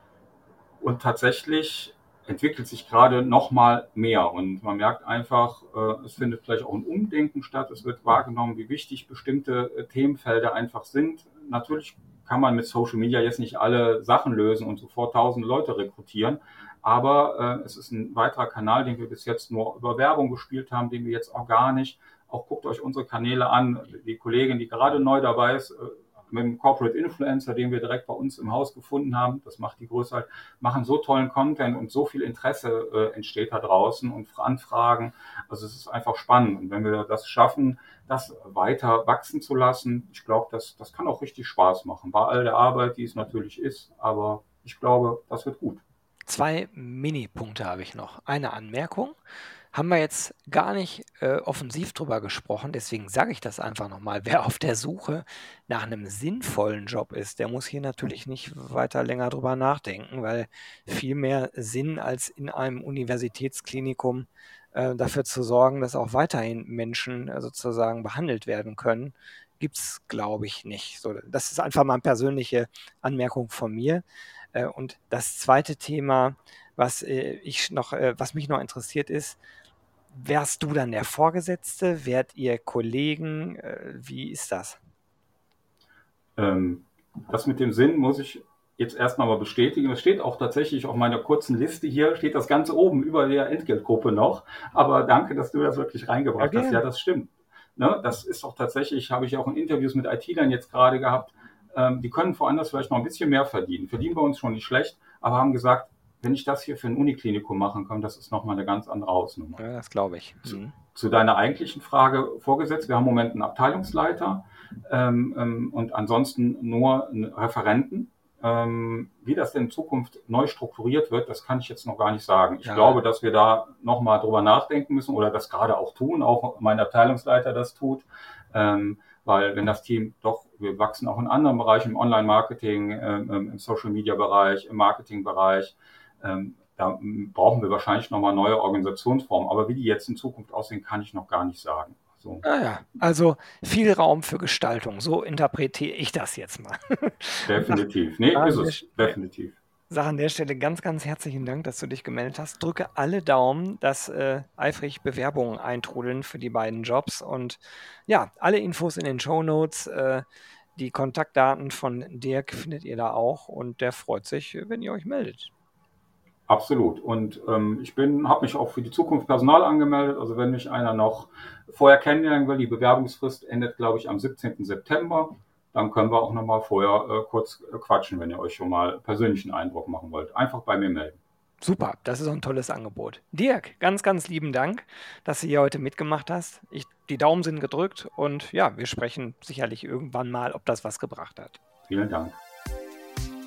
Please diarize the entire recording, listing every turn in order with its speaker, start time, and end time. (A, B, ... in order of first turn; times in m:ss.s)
0:00.8-0:45.8 A
0:46.3-0:49.2 B
0:49.7-1:19.4 B
1:20.1-1:24.8 B
1:26.4-1:49.6 A
1:36.4-1:36.8 B
1:49.6-1:50.7 B
1:50.4-2:22.4 A
2:02.6-2:03.0 B
2:22.4-2:27.8 B
2:27.5-2:29.6 A
2:28.3-2:29.2 B
2:29.9-2:40.2 B
2:40.8-2:45.5 B
2:46.5-3:01.2 A
3:01.6-3:11.6 B
3:11.9-3:12.4 A